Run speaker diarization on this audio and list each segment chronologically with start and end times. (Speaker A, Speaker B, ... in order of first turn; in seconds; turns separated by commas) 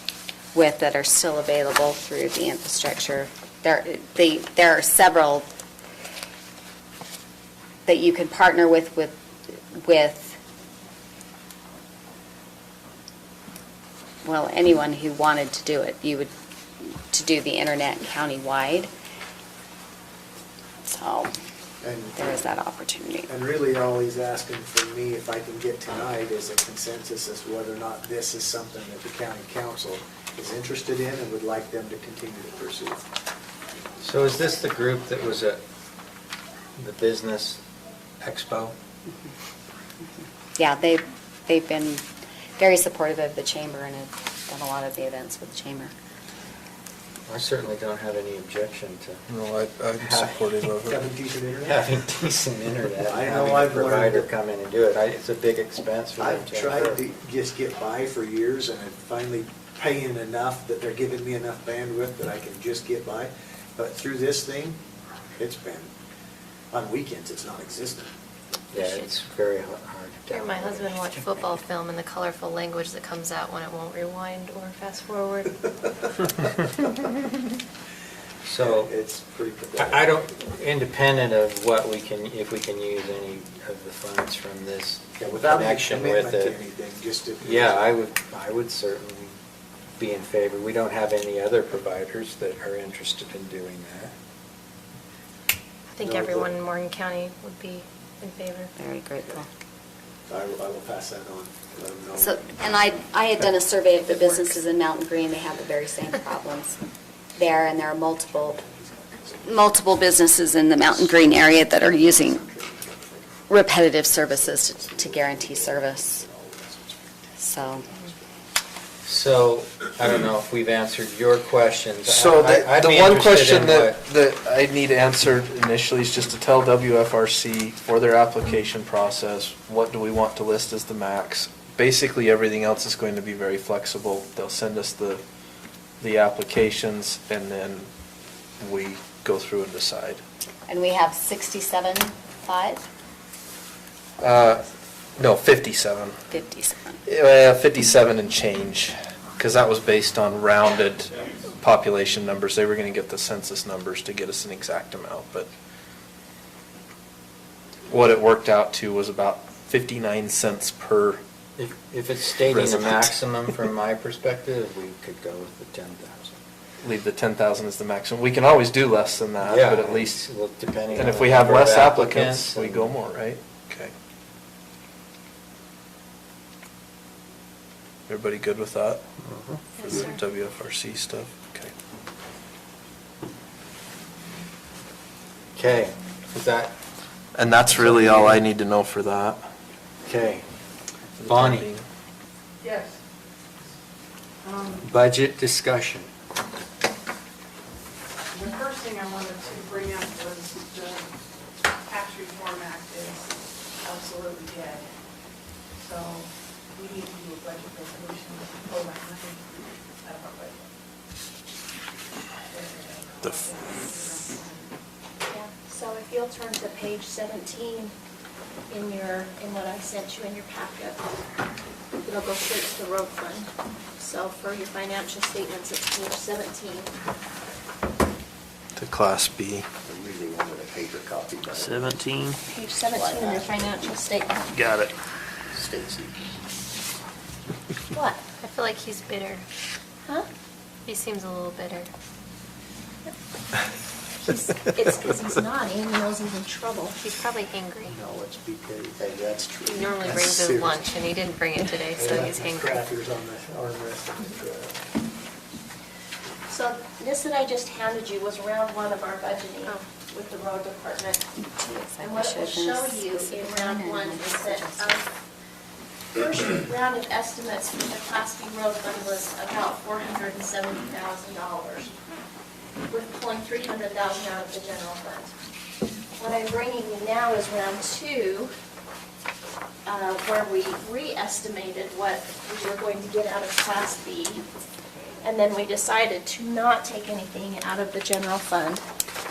Speaker A: 0.5-5.5, Speaker A: 7.9-10.4, Speaker A: 14.2-18.9, Speaker A: 20.8-21.3, Speaker B: 21.8-22.2, Speaker A: 22.1-23.3, Speaker B: 23.3-33.0, Speaker C: 34.0-35.6, Speaker C: 36.8-37.6, Speaker C: 38.2-38.8, Speaker A: 40.6-42.0, Speaker A: 42.6-45.9, Speaker C: 47.3-49.2, Speaker D: 49.3-51.1, Speaker C: 50.0-50.3, Speaker B: 50.9-52.0, Speaker C: 51.7-57.0, Speaker B: 53.0-54.3, Speaker B: 56.2-64.8, Speaker B: 65.4-65.9, Speaker B: 66.7-68.1, Speaker E: 68.7-69.1, Speaker C: 68.7-71.6, Speaker E: 70.3-75.6, Speaker C: 78.5-78.9, Speaker B: 78.6-80.2, Speaker C: 79.8-86.6, Speaker B: 85.2-87.9, Speaker C: 87.4-89.3, Speaker C: 90.0-94.2, Speaker E: 95.9-98.7, Speaker B: 96.0-96.5, Speaker A: 98.8-99.5, Speaker B: 100.3-102.5, Speaker A: 102.1-106.8, Speaker A: 107.4-108.6, Speaker B: 107.5-110.1, Speaker A: 109.4-112.4, Speaker B: 110.7-118.3, Speaker A: 113.5-116.2, Speaker A: 117.4-117.8, Speaker C: 119.0-124.0, Speaker D: 122.0-135.2, Speaker D: 136.0-137.9, Speaker D: 138.6-140.2, Speaker A: 140.7-142.9, Speaker D: 144.2-146.2, Speaker A: 146.3-147.0, Speaker D: 147.1-155.5, Speaker D: 157.9-161.2, Speaker C: 161.6-166.4, Speaker D: 162.5-163.2, Speaker D: 166.8-170.2, Speaker C: 169.4-173.0, Speaker D: 170.9-173.9, Speaker D: 178.1-179.0, Speaker C: 179.2-179.6, Speaker E: 179.8-180.2, Speaker D: 179.8-181.7, Speaker C: 185.6-186.8, Speaker D: 187.3-189.5, Speaker C: 187.7-188.4, Speaker C: 190.1-190.5, Speaker D: 191.2-191.8, Speaker C: 191.3-191.7, Speaker F: 192.6-193.0, Speaker F: 194.4-194.8, Speaker C: 194.8-196.1, Speaker F: 198.3-201.1, Speaker F: 201.8-204.9, Speaker F: 205.8-209.5, Speaker F: 210.0-210.7, Speaker F: 212.5-214.7, Speaker G: 215.3-217.9, Speaker G: 218.7-221.2, Speaker G: 222.0-226.9, Speaker D: 228.8-229.7, Speaker B: 229.8-232.0, Speaker D: 231.5-232.4, Speaker G: 232.5-234.6, Speaker B: 232.9-233.5, Speaker D: 234.6-234.9, Speaker B: 235.5-236.2, Speaker G: 237.9-238.2, Speaker E: 238.4-239.4, Speaker E: 240.9-241.9, Speaker G: 244.2-247.0, Speaker E: 247.0-248.0, Speaker B: 247.9-250.8, Speaker E: 249.6-252.8, Speaker B: 251.9-254.9, Speaker G: 256.5-261.3, Speaker A: 261.5-265.0, Speaker G: 262.0-265.1, Speaker G: 266.1-271.9, Speaker G: 272.9-275.3, Speaker G: 276.2-278.5, Speaker G: 279.9-284.5, Speaker G: 285.2-288.8